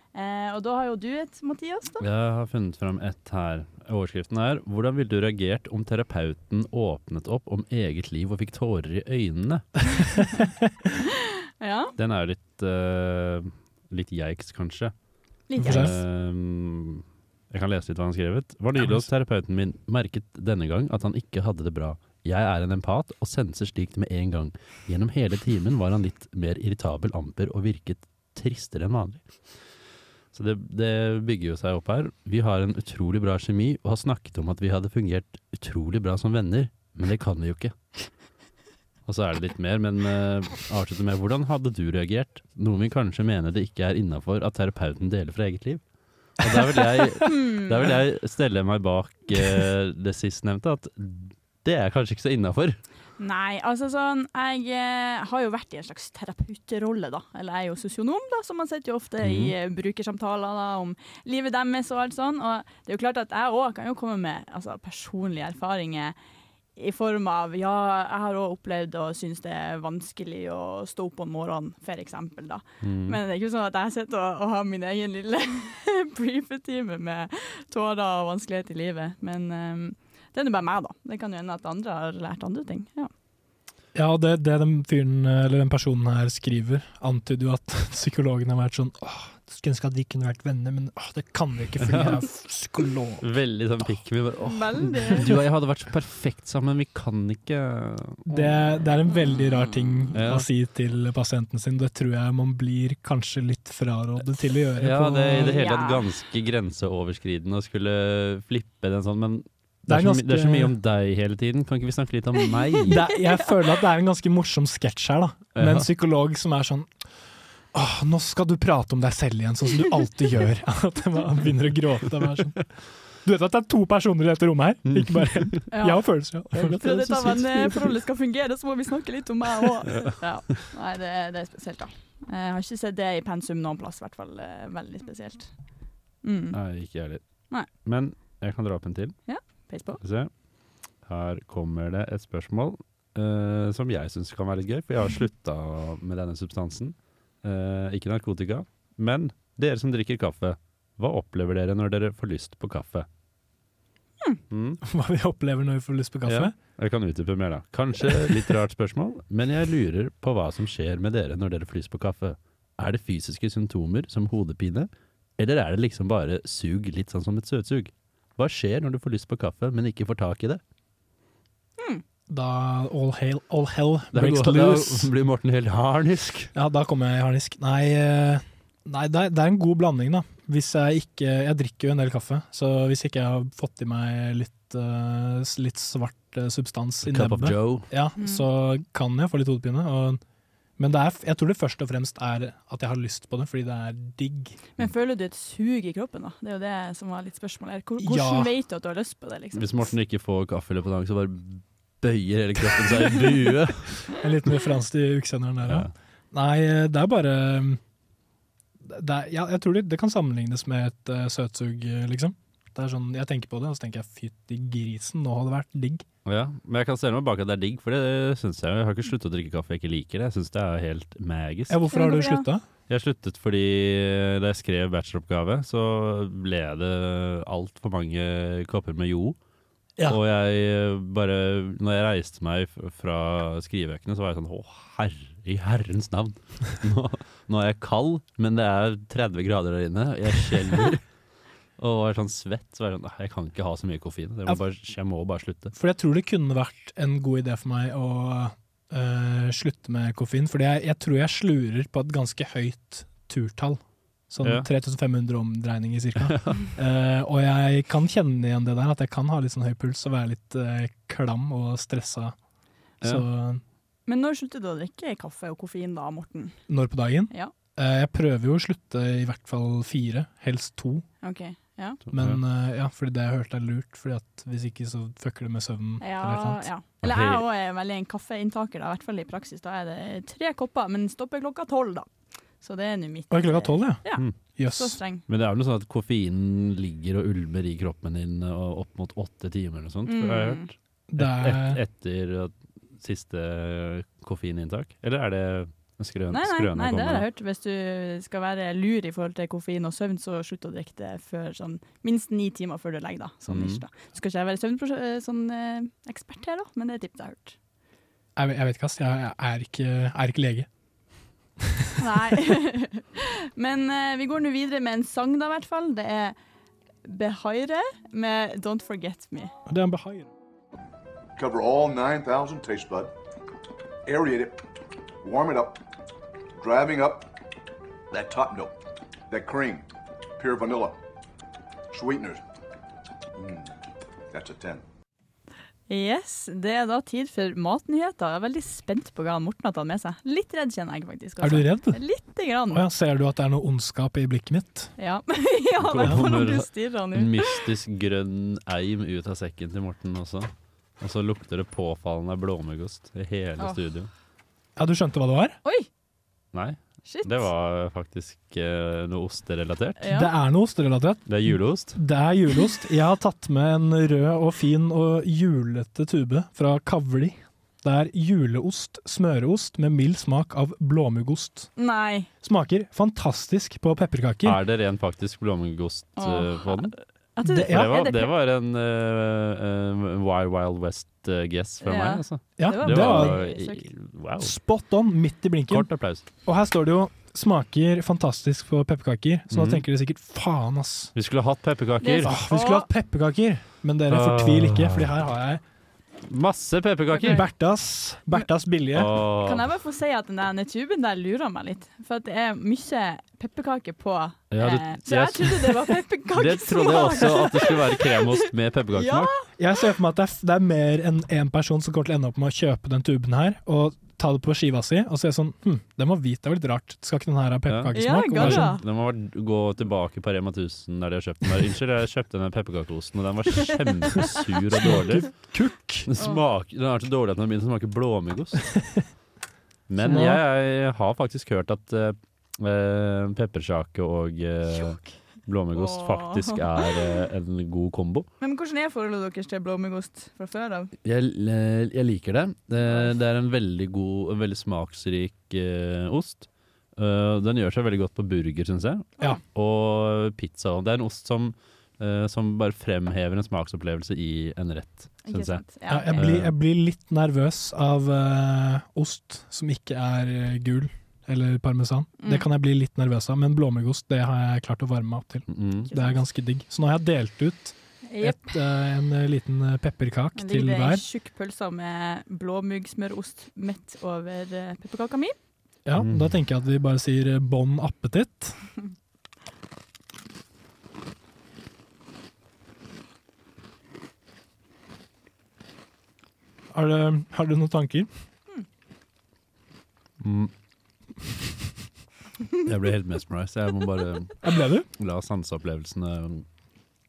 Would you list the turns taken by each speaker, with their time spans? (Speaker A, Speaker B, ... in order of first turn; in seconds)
Speaker A: 0.1-2.0, 11.6-11.9, 15.5-15.9, 47.2-47.8, 53.2-66.2, 66.8-83.1, 94.5-95.3, 99.1-100.1, 105.5-106.0, 112.7-113.6, 125.7-136.6, 139.3-140.0, 171.8-172.0, 188.2-188.4, 194.8-199.9, 221.9-222.4, 264.1-266.6, 271.2-272.0, 276.0-282.1, 282.6-285.2, 290.1-290.7, 296.3-307.6, 312.0-316.4, 317.0-319.5, 335.9-342.8, 345.0-347.6, 357.1-357.5, 360.0-360.3, 371.8-372.3, 376.2-378.3, 381.8-383.9, 392.0-392.9, 397.1-397.4, 399.4-408.4, 408.9-409.4, 417.9-418.8, 430.0-430.3, 434.7-435.1, 435.7-437.0, 438.4-440.9, 442.8-443.1, 455.2-456.2, 462.2-462.4, 465.9-466.2, 468.1-468.6, 470.4-475.3
Speaker B: 2.0-10.1, 12.0-14.9, 15.6-29.4, 30.3-37.7, 39.0-45.8, 46.4-52.8, 59.2-59.5, 72.8-73.2, 91.8-92.1, 93.2-98.3, 100.1-100.5, 104.8-113.0, 115.5-115.9, 136.5-139.2, 140.0-153.1, 154.5-154.8, 156.2-170.6, 174.1-176.5, 187.0-187.9, 199.5-204.1, 205.6-205.9, 216.2-221.8, 222.9-229.4, 230.0-241.0, 241.8-245.7, 254.4-254.7, 256.2-256.6, 272.1-272.4, 277.0-277.4, 285.3-297.2, 303.5-303.8, 345.8-354.1, 356.5-360.0, 361.3-362.0, 374.4-377.0, 377.6-384.5, 385.7-386.2, 389.5-389.8, 391.1-392.3, 394.1-395.1, 396.2-397.4, 398.9-399.7, 404.5-409.3, 417.7-425.4, 426.1-428.9, 429.9-438.3, 441.0-456.5, 465.5-465.9, 475.9-476.3, 490.2-490.5, 492.6-496.4
Speaker C: 15.6-15.9, 18.8-19.1, 83.9-93.2, 98.3-105.6, 109.9-110.7, 112.9-116.9, 117.7-128.0, 154.8-156.5, 158.0-158.5, 172.3-175.1, 176.5-190.2, 190.8-194.6, 198.0-198.5, 204.2-207.8, 208.8-216.1, 221.7-222.6, 245.7-262.4, 263.0-263.6, 266.7-271.1, 272.1-276.7, 283.3-285.0, 291.1-291.8, 308.4-310.7, 319.6-320.3, 341.4-342.0, 342.7-344.9, 346.0-346.3, 354.8-355.6, 360.1-371.7, 372.4-374.6, 377.4-377.9, 382.6-383.4, 384.4-391.1, 392.2-395.6, 397.2-399.1, 409.6-418.7, 424.8-426.1, 430.0-430.4, 455.9-471.0, 475.8-478.6, 486.7-488.1, 494.4-494.9
Speaker D: 321.4-323.1, 324.1-324.6, 325.2-325.8, 326.6-327.3, 328.1-328.8, 329.3-331.0, 331.9-332.4, 333.4-333.7, 334.3-334.8